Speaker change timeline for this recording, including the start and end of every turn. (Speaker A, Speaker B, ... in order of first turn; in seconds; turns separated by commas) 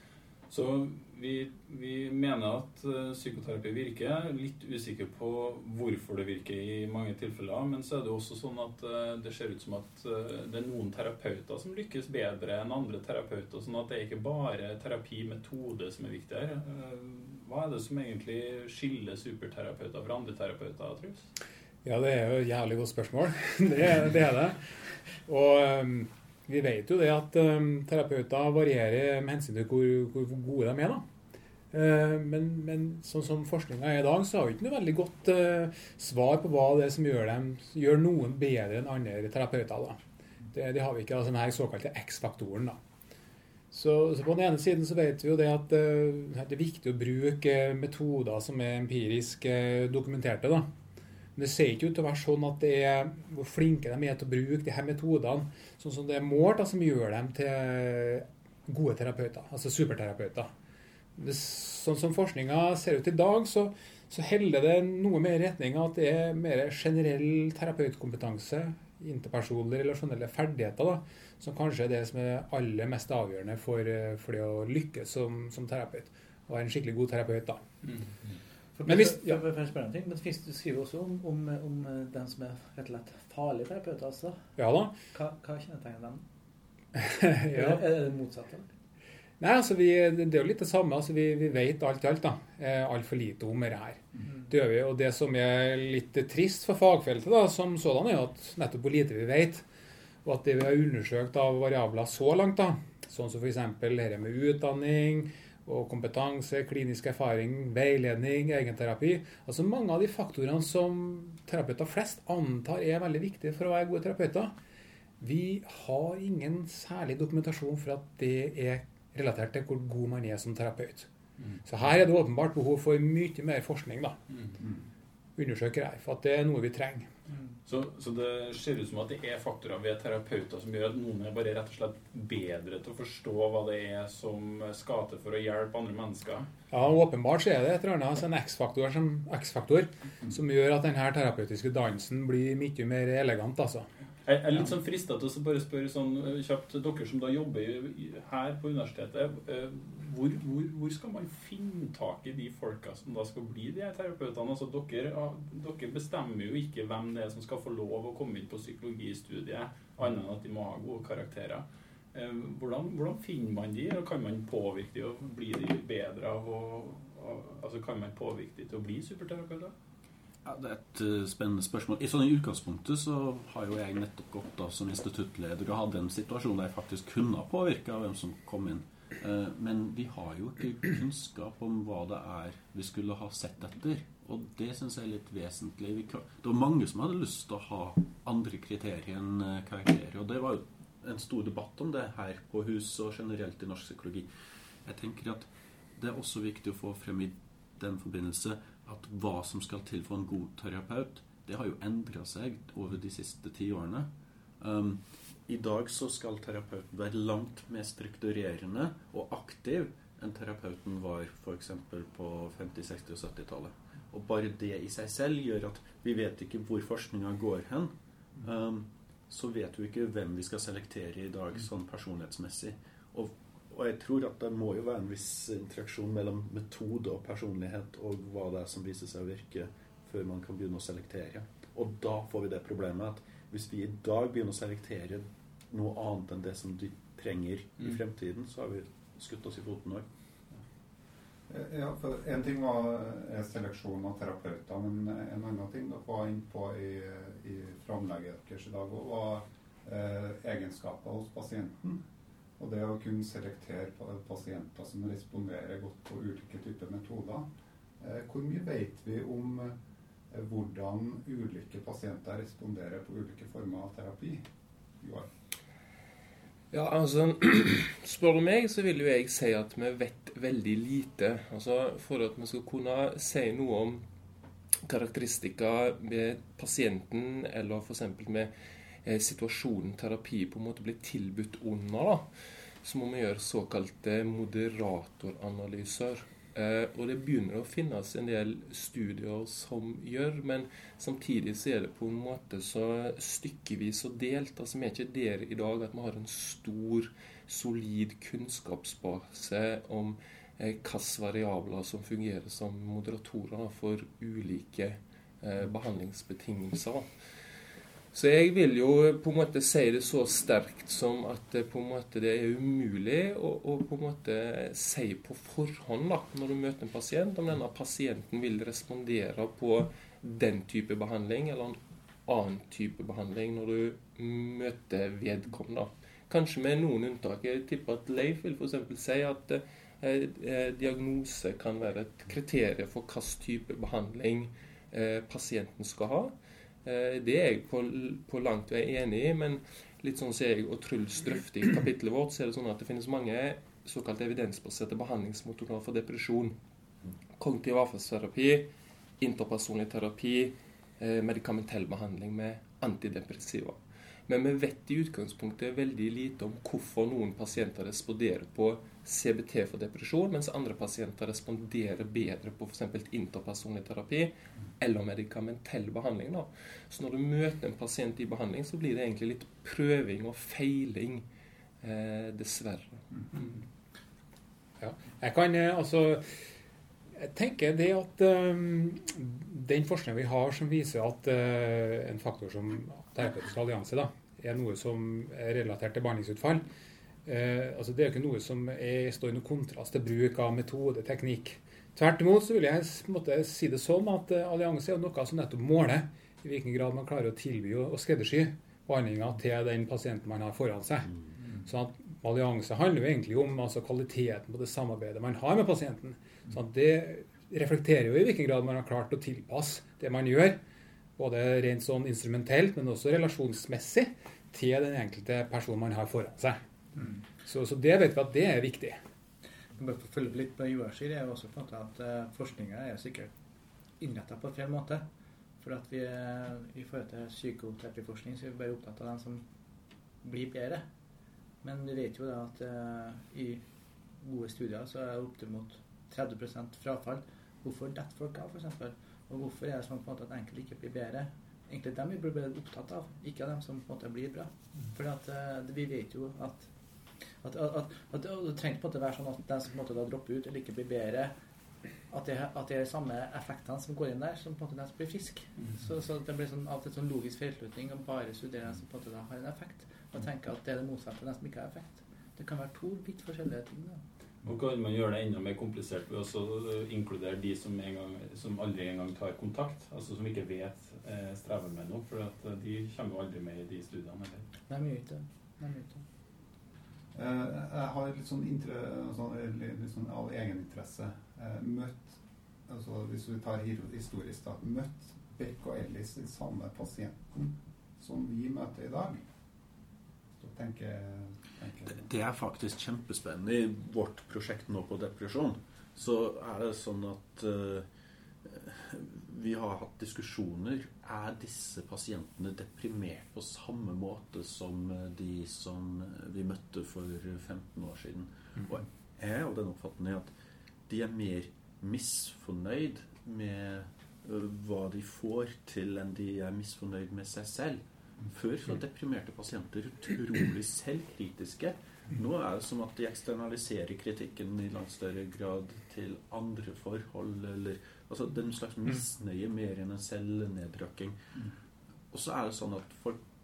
Speaker A: 0.5-21.3, Speaker B: 21.8-24.6, Speaker B: 25.2-31.0, Speaker B: 31.7-40.0, Speaker B: 40.5-42.8, Speaker B: 43.7-50.7, Speaker B: 51.4-60.5, Speaker B: 61.2-77.6, Speaker C: 78.8-84.4, Speaker B: 78.8-79.4, Speaker B: 84.6-85.0, Speaker C: 85.1-86.2, Speaker B: 87.0-87.8, Speaker C: 87.5-88.7, Speaker B: 89.4-99.7, Speaker B: 100.2-114.5, Speaker B: 115.2-121.1, Speaker A: 121.4-121.6, Speaker B: 121.7-124.2, Speaker B: 125.4-127.1, Speaker A: 127.7-136.5, Speaker B: 136.7-143.9, Speaker A: 144.2-169.7, Speaker D: 170.4-194.3, Speaker D: 194.8-240.1, Speaker E: 241.5-252.0, Speaker E: 252.6-257.5, Speaker E: 258.0-259.8, Speaker E: 260.3-264.4, Speaker E: 265.0-265.3, Speaker F: 266.7-274.0, Speaker F: 274.8-278.5, Speaker F: 279.0-282.3, Speaker F: 282.8-307.1, Speaker F: 308.1-346.6, Speaker F: 347.4-371.2, Speaker F: 371.8-373.0, Speaker B: 374.8-376.4, Speaker B: 377.1-386.6, Speaker B: 387.2-410.6, Speaker B: 411.2-416.6, Speaker B: 417.4-419.0, Speaker C: 419.8-423.3, Speaker C: 424.0-425.1, Speaker C: 425.6-429.4, Speaker C: 430.2-430.9, Speaker C: 431.6-433.6, Speaker C: 434.2-446.7, Speaker C: 447.4-451.3, Speaker C: 452.1-464.0, Speaker A: 464.4-474.5, Speaker C: 474.7-476.0, Speaker E: 477.1-489.2, Speaker E: 490.4-492.0, Speaker D: 491.9-497.9, Speaker D: 498.4-510.3, Speaker D: 510.9-531.1, Speaker D: 532.1-533.2